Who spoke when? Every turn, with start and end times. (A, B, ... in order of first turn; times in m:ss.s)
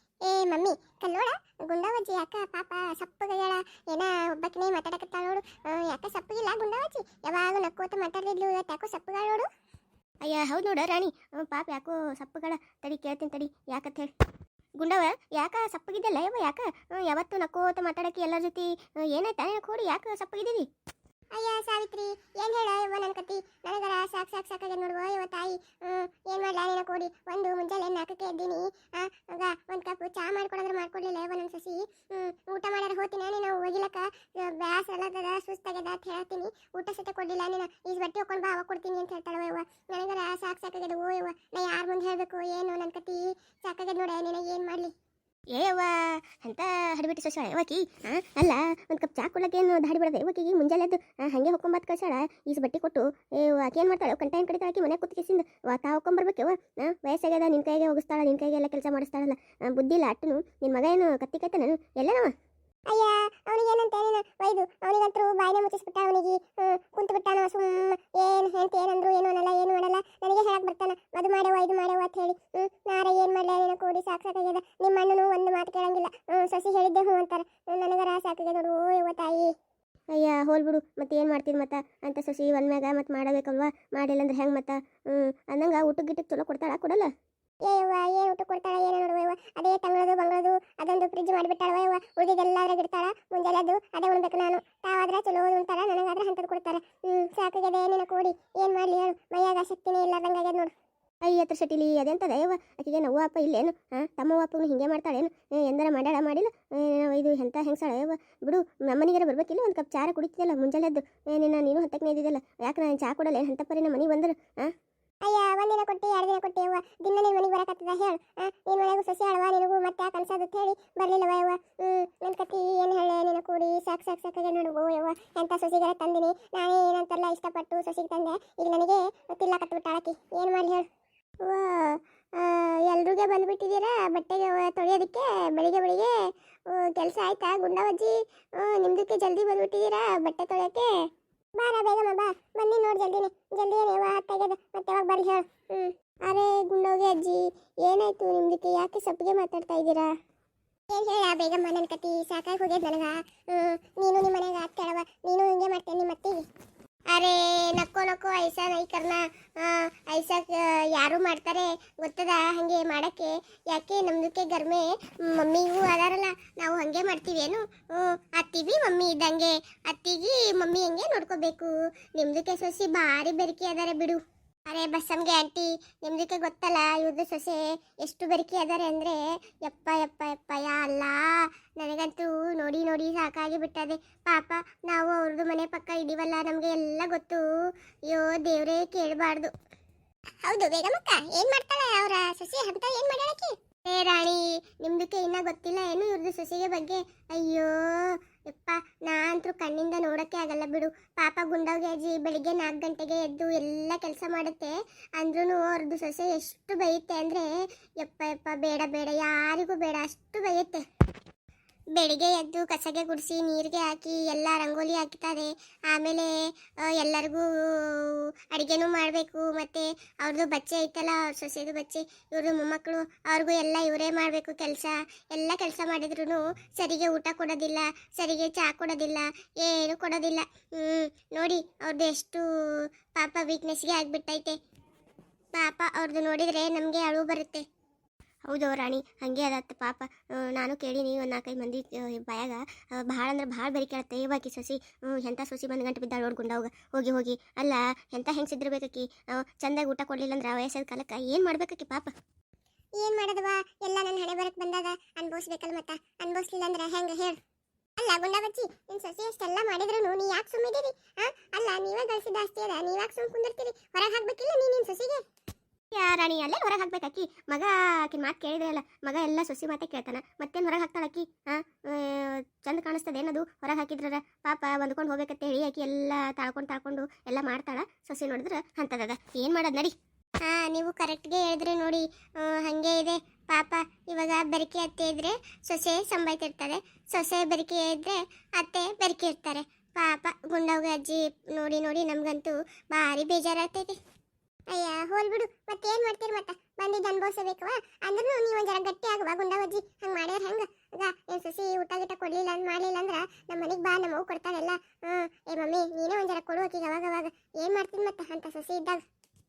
0:00.2-0:09.5 A
0:10.2-0:14.1 B
0:14.8-0:20.7 B
0:21.3-0:44.9 A
0:45.5-1:02.3 B
1:02.9-1:19.5 A
1:20.1-1:27.1 B
1:27.6-1:40.7 A
1:41.2-1:54.7 B
1:55.2-2:10.9 A
2:11.4-2:16.2 A
2:16.7-2:20.9 A
2:21.6-2:30.1 A
2:30.9-2:36.4 A
2:37.1-3:07.5 A
3:08.1-3:09.5 A
3:10.4-3:30.8 A
3:31.9-3:52.4 A
3:53.1-3:54.6 A
3:55.6-3:57.6 A
3:58.5-4:12.1 B
4:13.0-4:17.4 A
4:18.0-4:25.2 A
4:25.9-4:39.9 B
4:40.4-4:54.0 A
4:54.7-5:09.0 A